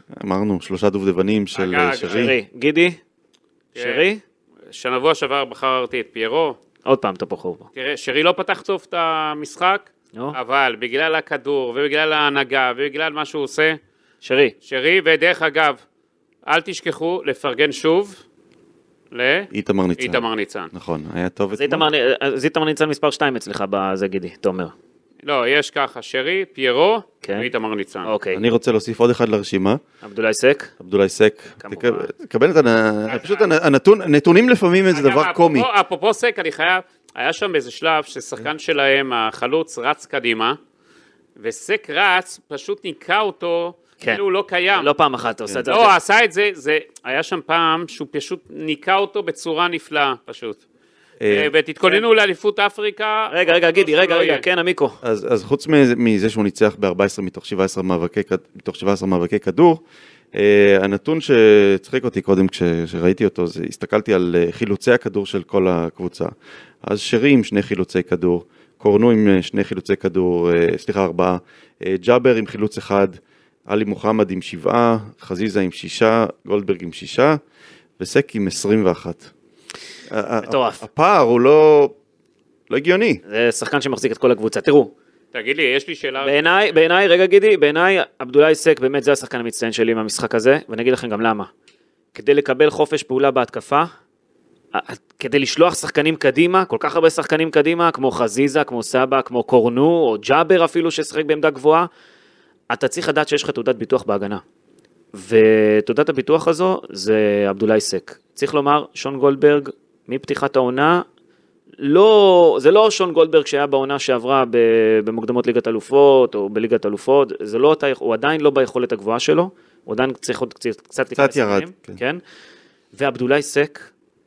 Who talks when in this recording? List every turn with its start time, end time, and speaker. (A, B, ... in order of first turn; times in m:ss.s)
0:00.1-0:02.3 A
0:01.6-0:02.3 B
0:02.1-0:03.0 C
0:03.8-0:04.0 B
0:03.8-0:04.2 C
0:04.7-0:06.6 B
0:06.8-0:07.7 C
0:07.8-0:13.8 B
0:14.2-0:14.6 C
0:14.7-0:15.8 B
0:16.5-0:18.2 B
0:19.1-0:20.7 B
0:19.5-0:21.9 A
0:21.5-0:24.7 C
0:25.2-0:28.1 B
0:27.2-0:27.5 C
0:28.0-0:28.4 C
0:28.3-0:29.8 A
0:30.0-0:30.7 C
0:30.8-0:35.7 A
0:31.6-0:32.1 C
0:33.1-0:33.5 B
0:34.9-0:40.6 B
0:41.4-0:44.9 B
0:44.8-0:46.0 C
0:45.7-0:50.6 B
0:51.2-0:51.5 A
0:51.3-0:54.4 B
0:53.3-0:55.0 C
0:55.0-0:59.8 A
1:00.3-1:17.4 A
1:18.0-1:19.3 A
1:20.1-1:21.9 A
1:20.4-1:20.8 C
1:22.7-1:23.2 A
1:23.3-1:24.9 C
1:25.3-1:26.4 B
1:26.2-1:31.5 C
1:32.1-1:33.9 C
1:34.7-1:41.9 C
1:42.7-1:44.4 C
1:45.1-1:51.0 C
1:51.8-2:02.2 C
2:01.1-2:02.0 A
2:03.0-2:03.9 C